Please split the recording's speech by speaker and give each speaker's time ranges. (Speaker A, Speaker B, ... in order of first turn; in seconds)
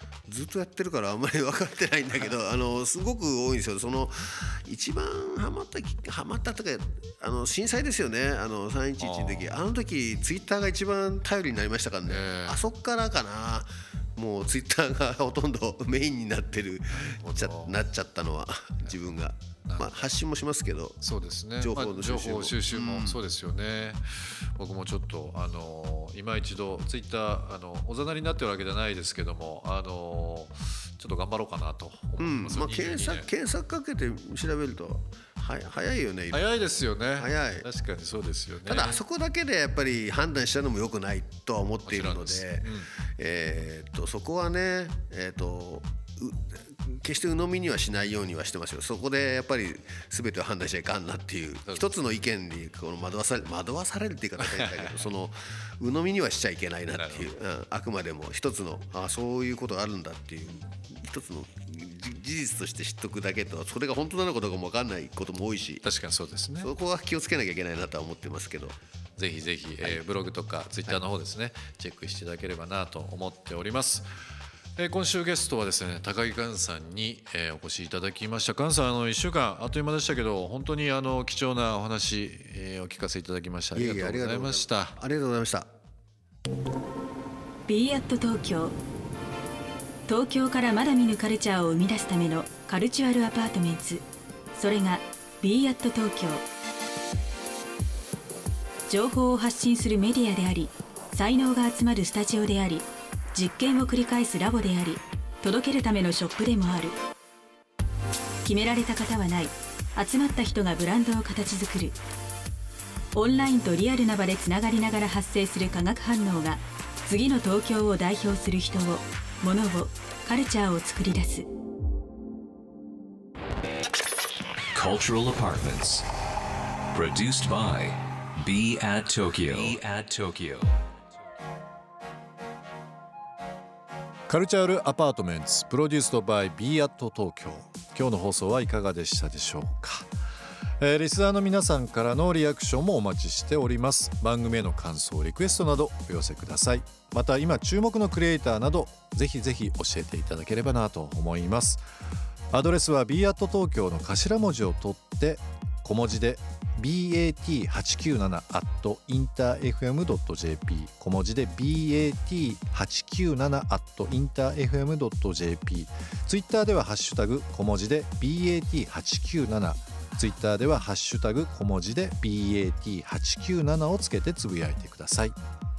Speaker A: 0.3-21.0, 21.6-23.2, 32.2-36.5, 37.2-37.7, 38.6-65.8, 66.6-68.8, 83.7-85.7
Speaker B: 9.0-9.6, 12.0-12.6, 16.9-17.8, 19.6-20.1, 21.0-33.3, 36.3-39.0, 41.8-42.9, 51.6-51.9, 54.4-55.1, 56.9-57.3, 65.8-66.7, 69.2-74.1, 74.8-85.0, 134.3-140.1, 140.8-151.8, 152.5-175.3
Speaker C: 87.7-88.7, 90.1-94.0, 94.5-96.4, 98.9-107.0, 108.4-112.0, 113.1-121.5
Speaker D: 124.7-126.0, 126.9-130.7